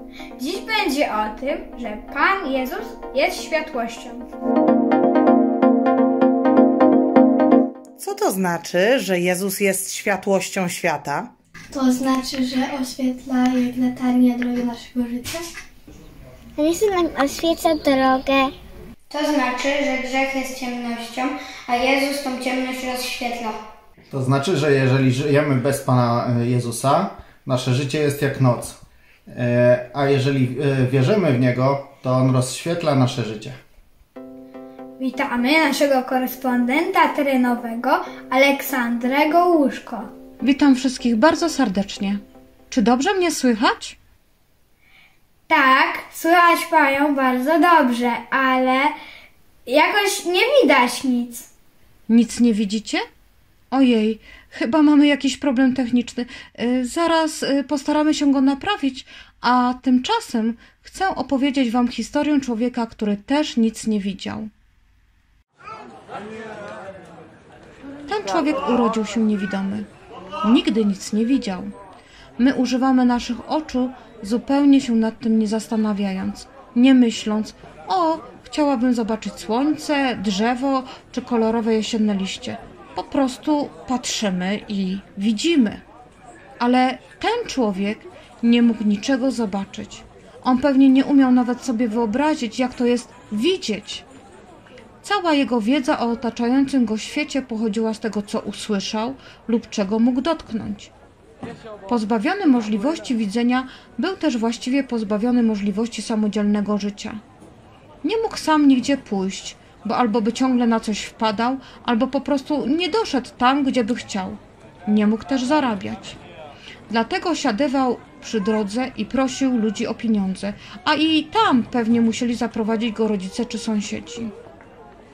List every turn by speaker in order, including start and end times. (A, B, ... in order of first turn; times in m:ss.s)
0:00.4-0:04.2 A
0:08.0-0:11.3 B
0:11.8-0:15.4 C
0:16.6-0:18.5 D
0:19.1-0:23.6 A
0:24.1-0:28.8 E
0:29.3-0:33.6 E
0:35.0-0:40.1 A
0:40.4-0:44.0 F
0:45.5-0:48.9 A
0:49.7-0:51.5 A
0:52.1-0:53.0 F
0:53.7-1:04.5 F
1:08.1-1:09.9 F
1:10.4-1:11.7 F
1:12.4-1:25.8 F
1:26.6-1:34.0 F
1:35.0-1:40.9 F
1:41.9-1:47.2 F
1:48.0-1:56.2 F
1:56.9-2:04.3 F